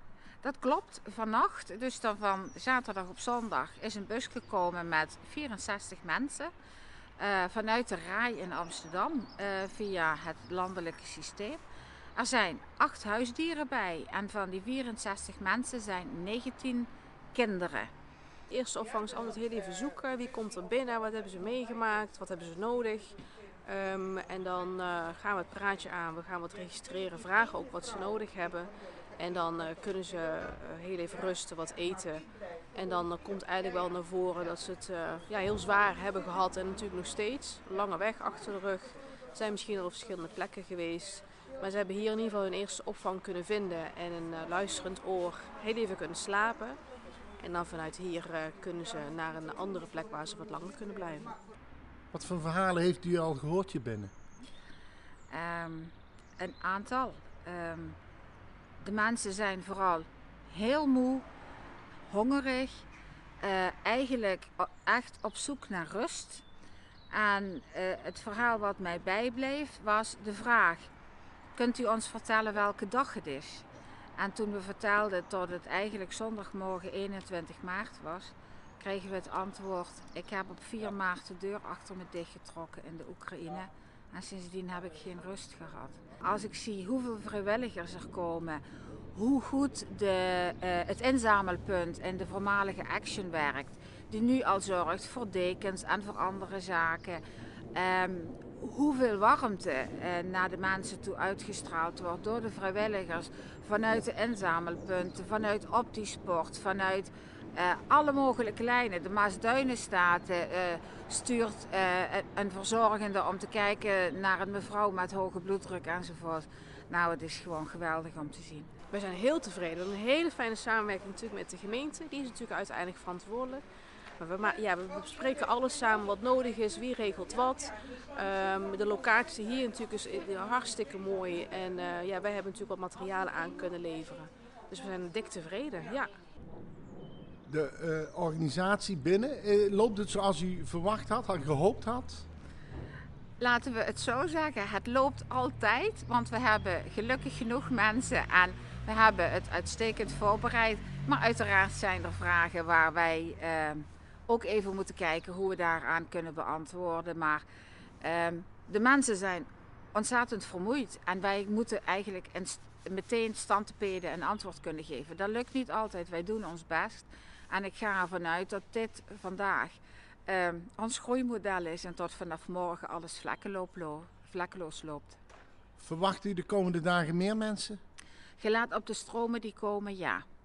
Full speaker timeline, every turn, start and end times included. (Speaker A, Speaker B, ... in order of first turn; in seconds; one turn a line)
Speaker A: 0.4-6.5
Speaker A: 7.2-11.6
Speaker A: 12.2-17.9
Speaker B: 18.5-46.8
Speaker B: 47.4-51.4
Speaker C: 52.1-54.1
Speaker A: 55.3-58.0
Speaker A: 58.8-61.3
Speaker A: 62.1-62.9
Speaker A: 63.4-66.5
Speaker A: 67.1-70.9
Speaker A: 71.6-73.7
Speaker A: 74.2-88.6
Speaker A: 89.1-97.2
Speaker A: 97.7-118.7
Speaker B: 118.9-123.6
Speaker B: 124.2-136.1
Speaker C: 137.5-142.3
Speaker A: 143.4-157.5
Speaker A: 158.0-175.2
Speaker C: 175.8-177.8
Speaker A: 178.4-180.2